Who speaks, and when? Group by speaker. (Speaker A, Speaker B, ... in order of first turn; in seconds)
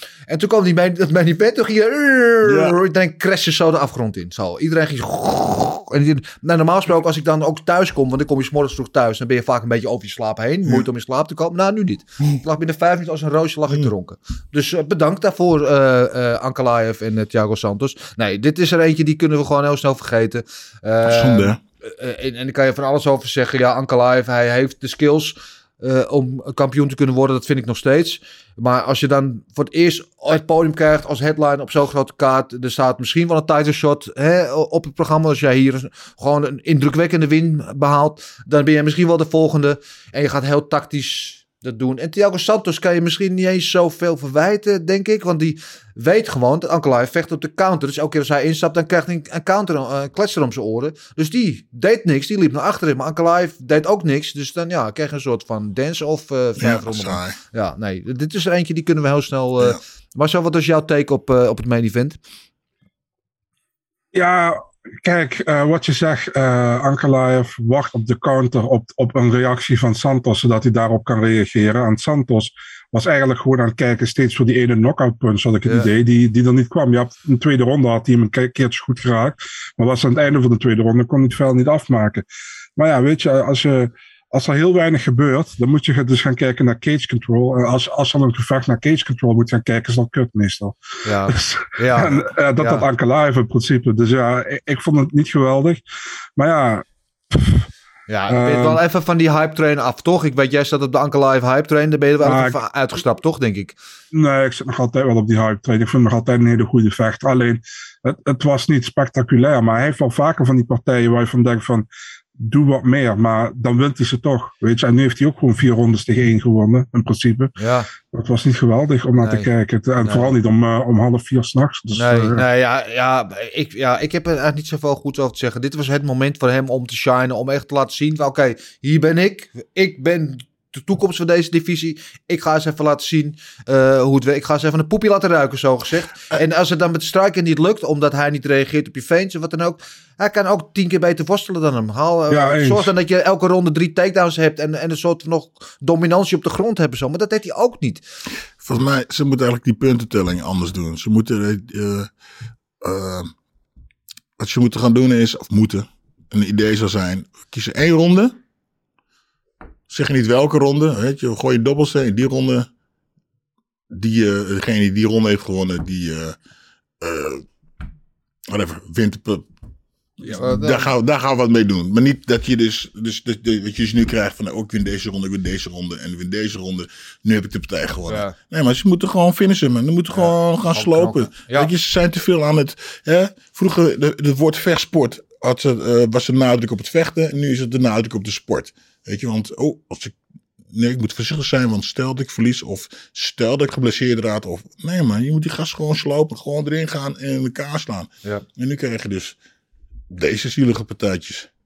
Speaker A: 0.3-62.2, 91.0-92.8, 98.1-103.8, 117.6-117.9, 119.2-119.5, 120.0-120.3, 122.0-148.0, 170.2-170.9, 178.1-178.3, 180.1-181.7
Speaker B: 2.4-2.7, 21.0-21.6, 56.6-57.4, 148.6-152.1, 152.8-153.3, 154.4-158.4, 159.9-162.7, 163.9-166.4, 167.0-167.4, 168.5-169.4, 170.2-190.2, 190.7-199.4, 200.1-201.5
Speaker C: 64.1-82.2, 82.8-95.8, 96.3-97.7, 98.3-98.8, 102.2-102.6, 104.1-111.9, 112.4-117.5, 118.1-122.4, 142.3-142.9